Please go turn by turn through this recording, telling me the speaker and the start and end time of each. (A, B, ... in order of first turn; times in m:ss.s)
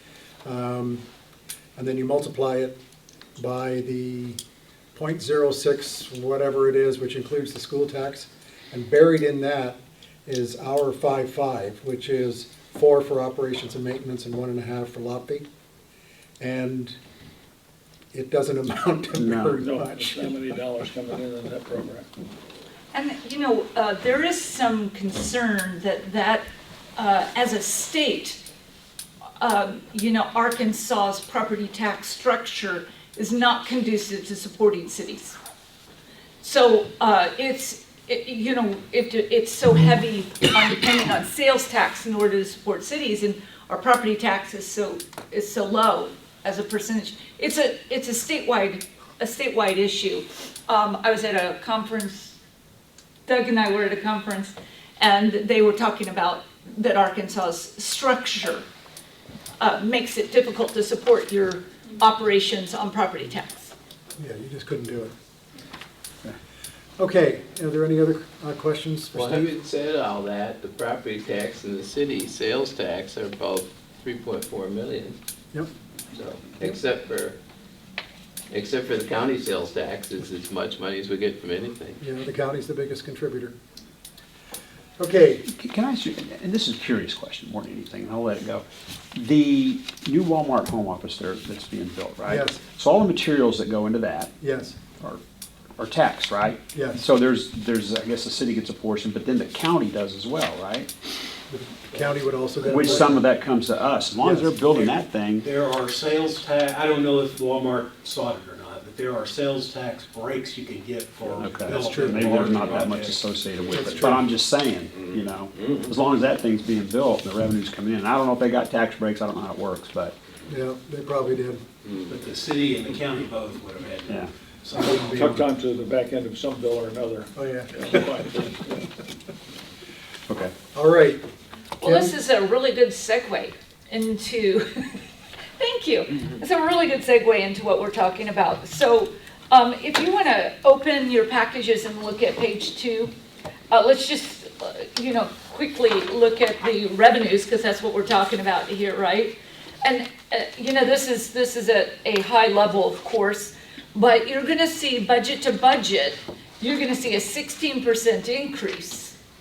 0:00.4-0:01.0 A
0:01.8-0:02.8 A
0:03.4-0:04.4 A
0:04.9-0:15.5 A
0:16.4-0:17.0 A
0:18.1-0:20.4 A
0:19.2-0:19.6 B
0:19.6-0:22.1 C
0:22.9-0:26.4 D
0:27.0-0:28.4 D
0:29.4-0:35.4 D
0:36.4-0:52.4 D
0:53.3-0:58.6 D
0:59.6-1:03.7 D
1:04.2-1:05.1 A
1:07.0-1:09.5 A
1:09.1-1:15.2 E
1:16.1-1:17.4 E
1:18.5-1:22.0 E
1:22.0-1:23.6 A
1:25.0-1:25.5 A
1:25.5-1:34.3 B
1:32.3-1:32.6 A
1:34.4-1:34.8 A
1:35.8-1:40.9 B
1:36.7-1:37.0 A
1:41.5-1:43.2 A
1:42.7-1:45.5 B
1:44.2-1:44.5 A
1:44.6-1:53.2 F
1:51.4-2:00.2 B
1:51.7-1:52.3 A
1:53.7-1:54.2 A
2:00.5-2:01.6 A
2:02.1-2:05.5 F
2:04.7-2:05.4 A
2:04.9-2:08.8 C
2:07.4-2:07.9 A
2:10.8-2:11.2 A
2:11.8-2:15.0 D
2:11.8-2:12.1 A
2:15.6-2:23.1 D
2:23.7-2:39.2 D